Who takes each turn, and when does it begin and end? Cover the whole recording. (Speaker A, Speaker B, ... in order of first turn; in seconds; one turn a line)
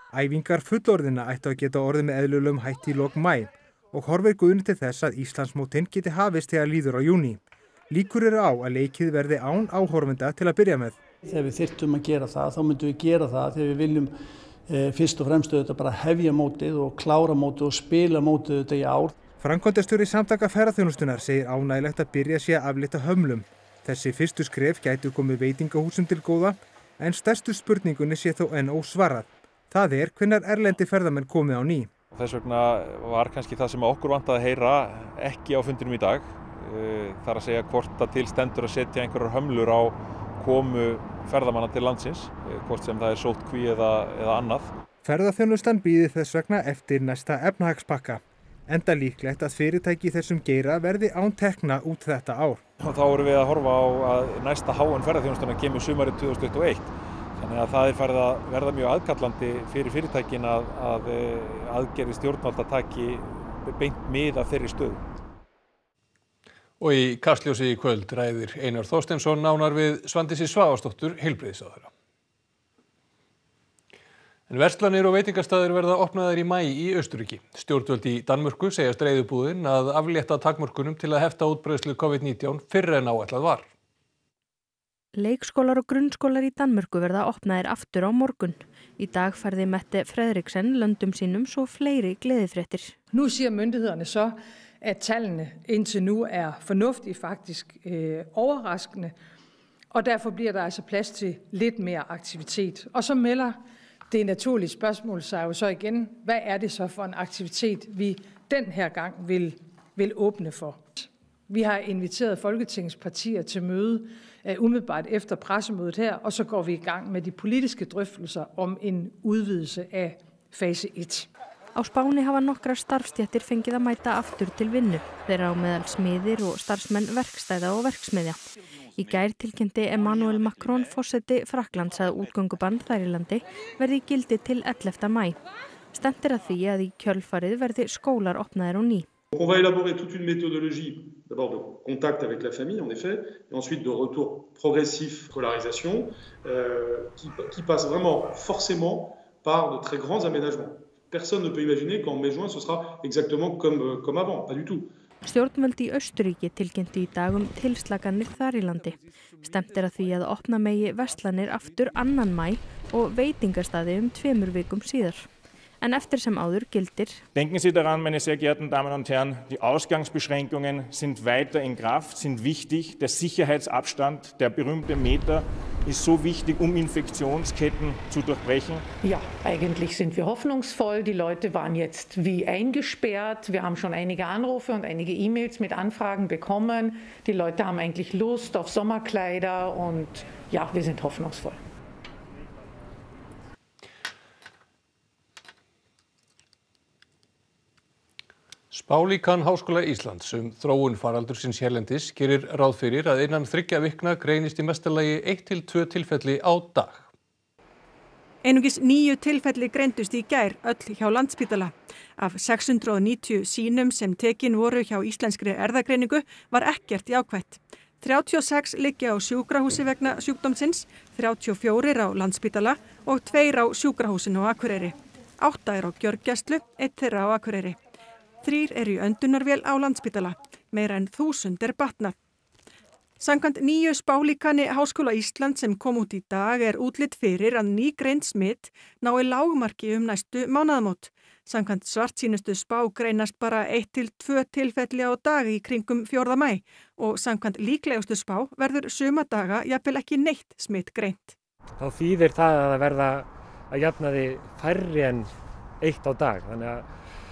Speaker A: 0.1-11.0
Speaker B: 11.2-14.1
Speaker B: 14.7-19.2
Speaker A: 19.4-31.9
Speaker C: 32.1-44.7
Speaker A: 45.0-52.6
Speaker C: 52.8-65.0
Speaker D: 66.8-71.9
Speaker D: 74.5-83.7
Speaker E: 85.2-93.0
Speaker F: 93.1-99.1
Speaker F: 99.9-121.3
Speaker E: 121.8-128.4
Speaker E: 129.0-135.4
Speaker E: 135.9-139.1
Speaker G: 139.3-154.9
Speaker E: 155.2-165.3
Speaker E: 165.8-167.2
Speaker H: 167.3-178.8
Speaker I: 179.0-191.6
Speaker D: 198.7-207.1
Speaker J: 208.4-227.8
Speaker J: 228.4-232.2
Speaker J: 233.2-251.3
Speaker K: 251.8-256.9